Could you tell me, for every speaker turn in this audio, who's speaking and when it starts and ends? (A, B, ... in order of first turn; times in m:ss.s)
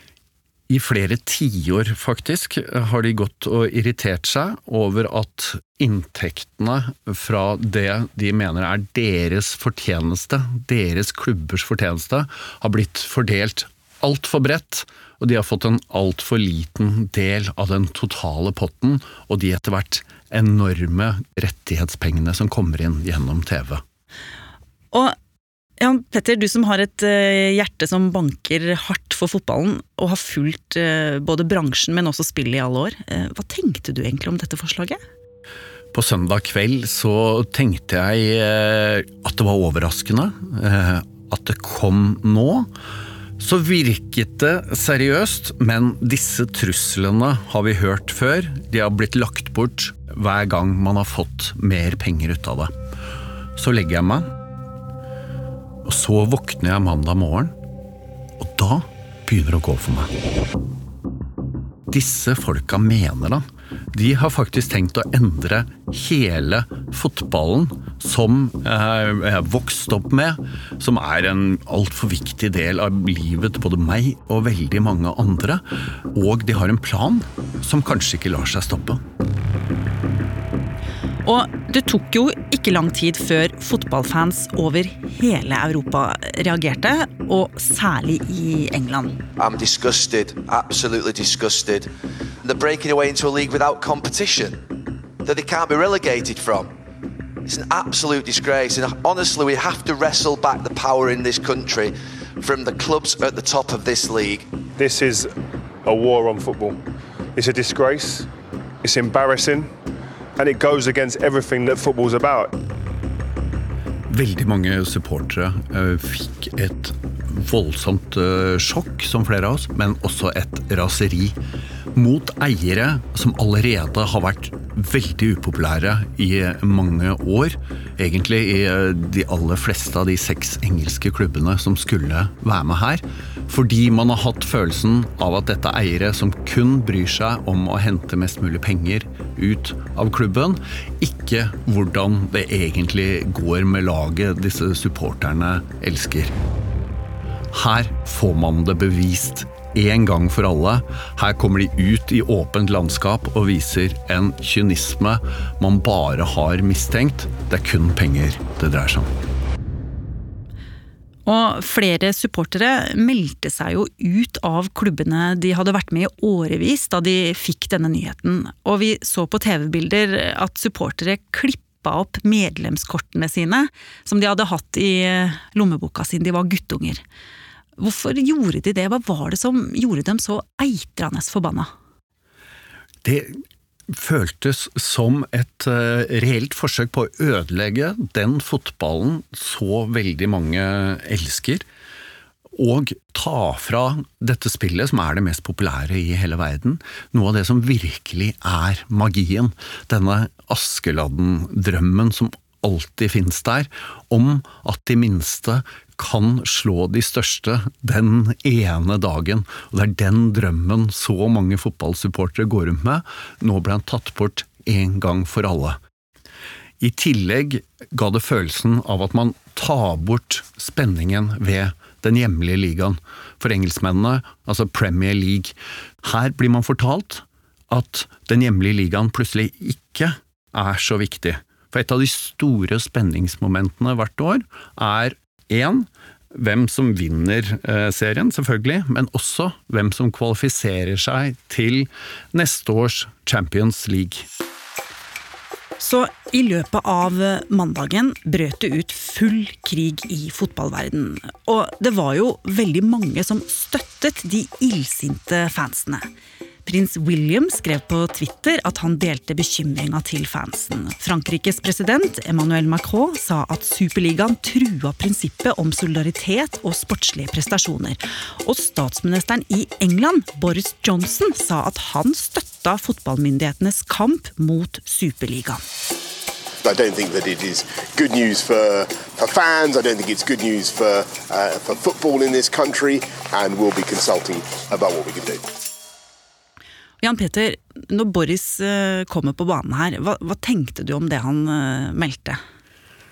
0:00.7-0:23.8 A
0:25.8-0:35.0 B
0:35.9-0:42.7 A
0:43.4-0:52.7 A
0:53.6-0:54.3 A
0:55.8-0:57.5 A
0:58.4-1:00.1 A
1:01.9-1:19.0 A
1:21.2-1:29.2 B
1:29.4-1:31.9 C
1:32.4-1:34.6 C
1:35.2-1:36.7 C
1:37.4-1:44.5 C
1:44.8-1:46.8 D
1:47.3-1:48.3 D
1:48.8-1:49.7 D
1:50.4-1:52.6 D
1:54.1-2:01.4 A
2:01.9-2:26.3 A
2:27.5-2:39.1 A
2:41.2-2:57.0 B
2:57.8-3:01.7 B
3:03.0-3:03.3 A
3:03.9-3:11.6 A
3:12.5-3:35.8 A
3:36.8-4:04.3 A
4:05.8-4:16.0 B
4:16.6-4:35.6 B
4:36.6-4:45.4 E
4:47.0-4:52.4 B